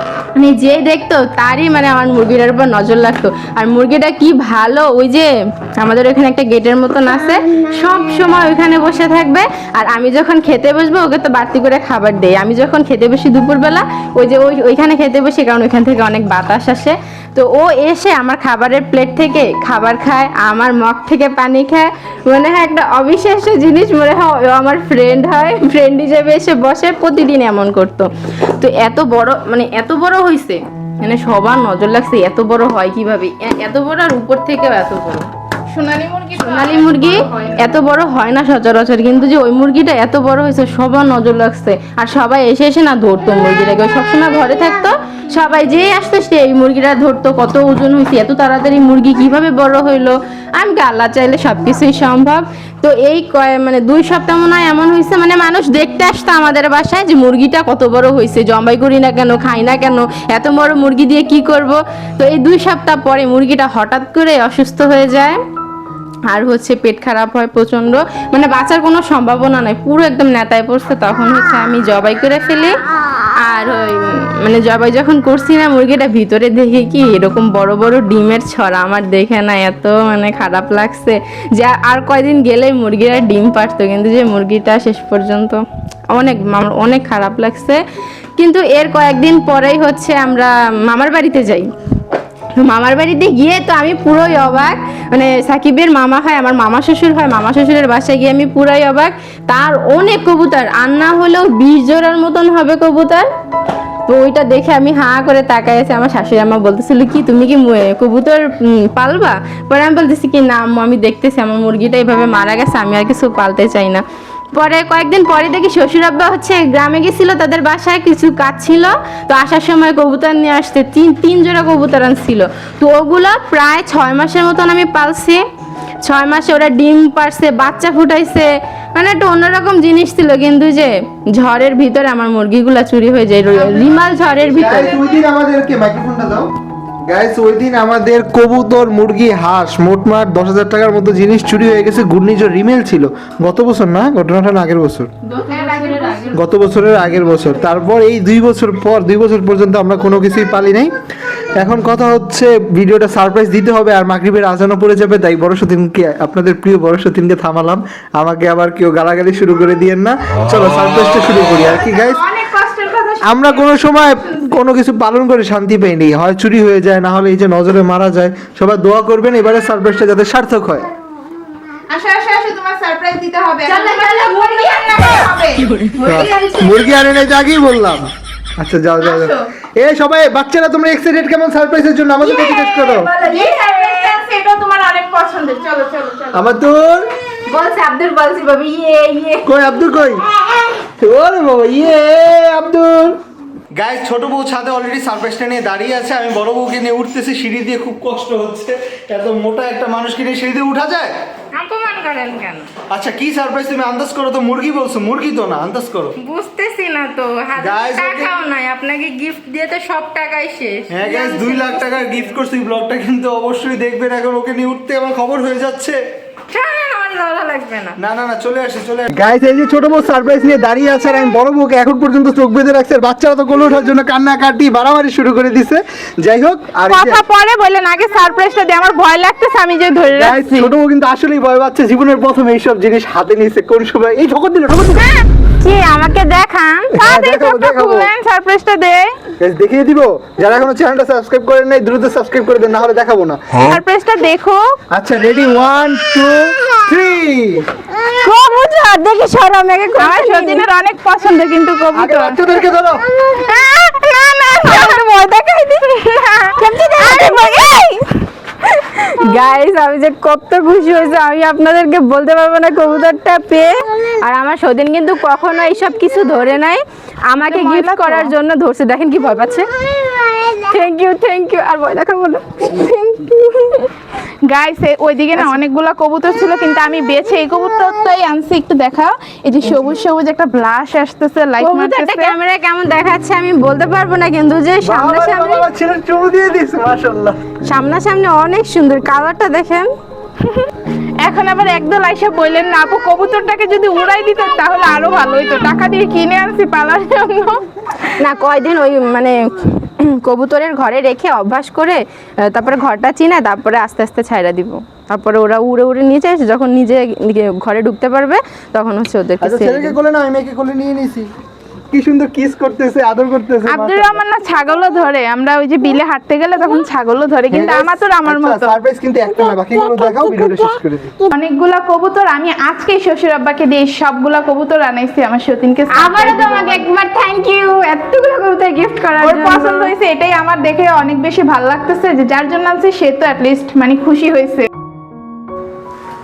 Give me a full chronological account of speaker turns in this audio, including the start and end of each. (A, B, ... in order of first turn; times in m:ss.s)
0:00.4-0:35.3 A
0:35.7-0:37.8 B
0:36.3-1:05.4 A
1:06.3-1:12.7 A
1:13.4-1:27.8 A
1:28.4-1:31.7 A
1:32.6-1:43.2 A
1:44.1-1:54.0 A
1:54.5-2:05.4 A
2:06.0-2:15.0 A
2:13.7-2:14.4 B
2:14.5-2:16.5 C
2:17.1-2:25.1 C
2:25.2-2:26.4 A
2:25.5-2:26.4 B
2:26.3-2:30.9 C
2:31.6-2:42.2 C
2:41.7-2:44.6 B
2:43.2-2:50.9 C
2:51.9-2:55.8 B
2:53.6-2:57.1 A
2:56.0-3:03.1 C
2:59.0-2:59.4 B
3:02.2-3:04.2 A
3:02.3-3:06.6 B
3:06.3-3:07.0 C
3:07.5-3:09.5 A
3:09.4-3:10.2 C
3:11.0-3:13.1 C
3:13.8-3:21.1 C
3:21.5-3:22.7 A
3:22.9-3:26.2 C
3:26.2-3:32.4 A
3:27.6-3:28.3 C
3:30.9-3:36.0 C
3:36.5-3:37.9 A
3:38.0-3:47.2 C
3:46.9-3:50.7 B
3:50.1-3:55.1 C
3:55.6-3:57.0 A
3:56.9-3:58.1 C
3:57.0-3:59.2 B
3:59.4-4:03.6 C
4:03.6-4:04.8 B
4:04.9-4:07.7 C
4:08.0-4:10.7 A
4:10.0-4:12.5 B
4:11.9-4:13.0 C
4:13.1-4:29.7 A
4:14.7-4:14.9 B
4:16.7-4:17.8 B
4:27.4-4:28.3 B
4:30.2-4:33.9 A
4:34.4-4:42.4 B
4:41.6-4:45.7 A
4:44.8-4:47.4 C
4:47.6-4:49.9 A
4:51.2-4:58.2 B
4:58.2-5:10.0 A
5:09.4-5:11.3 C
5:11.9-5:14.2 C
5:13.6-5:18.8 B
5:17.5-5:21.1 C
5:21.3-5:26.9 B
5:25.9-5:29.9 A
5:29.2-5:34.7 B